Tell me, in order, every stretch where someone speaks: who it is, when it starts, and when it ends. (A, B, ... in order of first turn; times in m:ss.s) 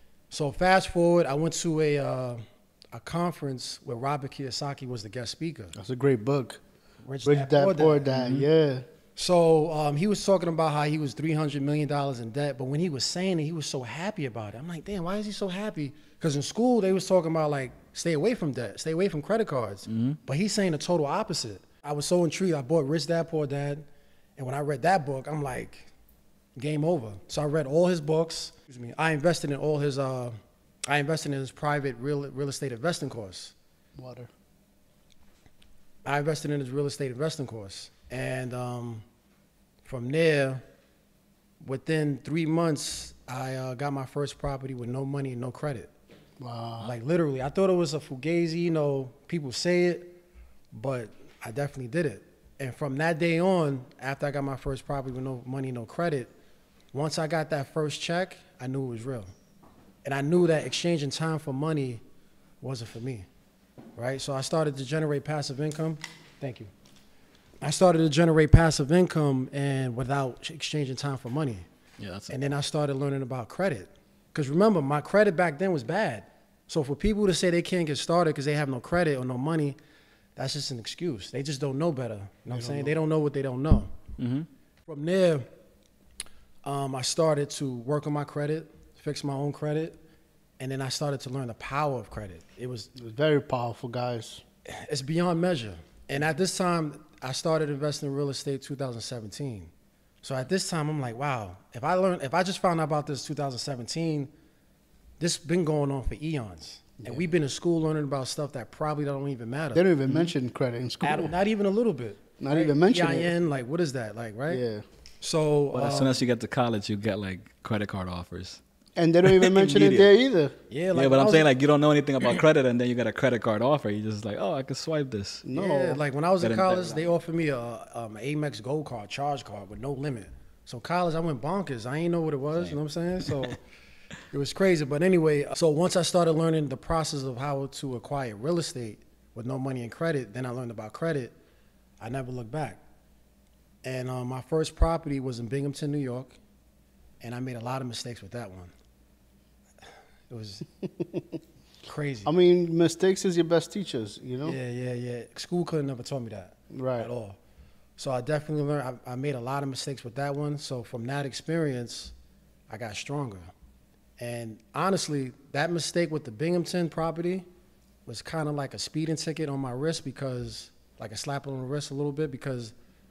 0:00.3-0:05.8 A
0:05.7-0:06.6 B
0:07.0-0:08.1 A
0:07.2-0:08.9 B
0:08.1-0:08.5 C
0:09.2-0:25.9 A
0:19.9-0:20.2 C
0:26.6-0:30.4 A
0:30.9-0:33.5 A
0:34.0-0:34.3 B
0:36.0-0:39.0 A
0:39.8-0:40.6 A
0:41.6-0:45.9 A
0:46.4-0:46.9 B
0:46.8-0:50.2 A
0:50.7-0:56.3 A
0:56.9-0:59.3 A
1:00.0-1:02.0 A
1:02.6-1:03.3 A
1:04.0-1:06.7 A
1:07.6-1:11.7 A
1:12.0-1:12.4 C
1:12.3-1:19.8 A
1:20.4-1:23.9 A
1:22.5-1:23.0 B
1:24.2-1:24.5 C
1:24.9-1:25.5 A
1:26.6-1:30.0 A
1:30.6-1:32.9 A
1:33.0-1:34.4 B
1:34.7-1:39.7 A
1:40.2-1:44.3 A
1:45.2-1:49.8 A
1:49.8-1:51.3 B
1:50.1-1:50.3 C
1:51.0-1:54.6 A
1:52.4-1:53.3 B
1:54.5-1:54.8 B
1:55.2-1:56.2 A
1:55.7-1:58.6 C
1:59.0-2:00.6 B
1:59.2-2:00.1 C
2:00.7-2:01.5 A
2:01.0-2:05.5 C
2:05.4-2:06.0 B
2:05.6-2:13.6 A
2:06.4-2:07.1 C
2:12.6-2:13.5 C
2:14.3-2:21.3 A
2:22.0-2:22.8 A
2:23.8-2:26.4 A
2:27.2-2:28.7 A
2:30.3-2:30.7 A
2:31.9-2:32.3 A
2:32.2-2:34.6 B
2:34.4-2:37.4 A
2:36.7-2:37.1 B
2:38.0-2:42.1 A
2:42.7-2:43.5 A
2:44.2-2:47.5 A
2:48.1-2:52.7 A